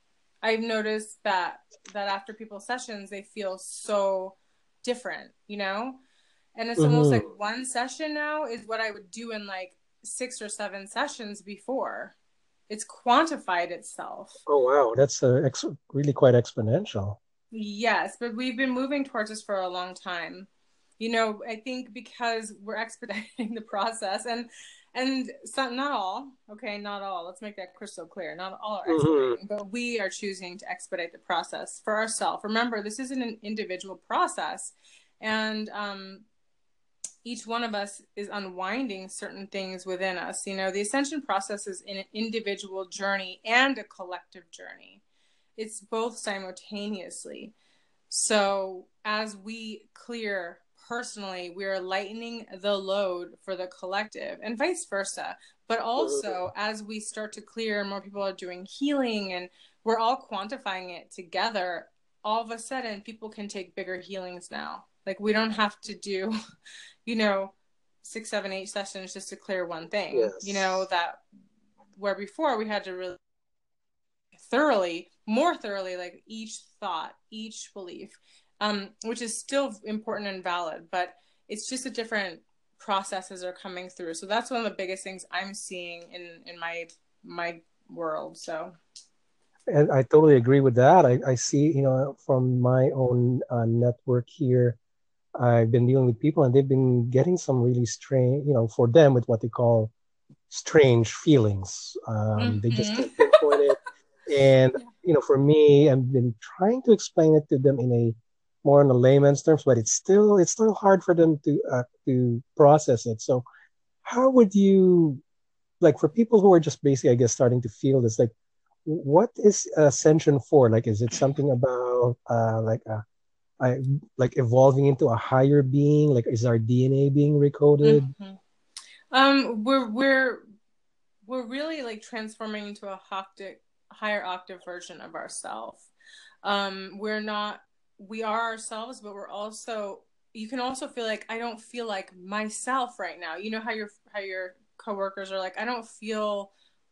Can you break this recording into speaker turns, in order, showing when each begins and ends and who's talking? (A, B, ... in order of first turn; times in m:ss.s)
0:00.4-0:06.0 A
0:06.6-0:12.2 A
0:06.8-0:07.3 B
0:12.7-0:14.4 A
0:14.4-0:17.2 B
0:17.5-0:20.5 A
0:21.0-0:36.2 A
0:28.9-0:29.4 B
0:37.2-0:45.0 A
0:45.6-0:47.5 A
0:48.1-1:06.3 A
0:56.0-0:56.4 B
1:07.0-1:11.2 A
1:10.1-1:10.8 B
1:12.0-1:13.2 A
1:14.4-1:28.8 A
1:29.7-1:34.8 B
1:35.4-1:39.9 B
1:40.5-1:53.4 B
1:42.4-1:43.6 A
1:54.0-1:55.2 B
1:55.8-1:58.3 B
1:58.8-2:03.0 B
2:03.6-2:08.1 B
2:07.8-2:08.4 A
2:09.1-2:10.4 A
2:11.2-2:15.9 A
2:16.4-2:26.5 A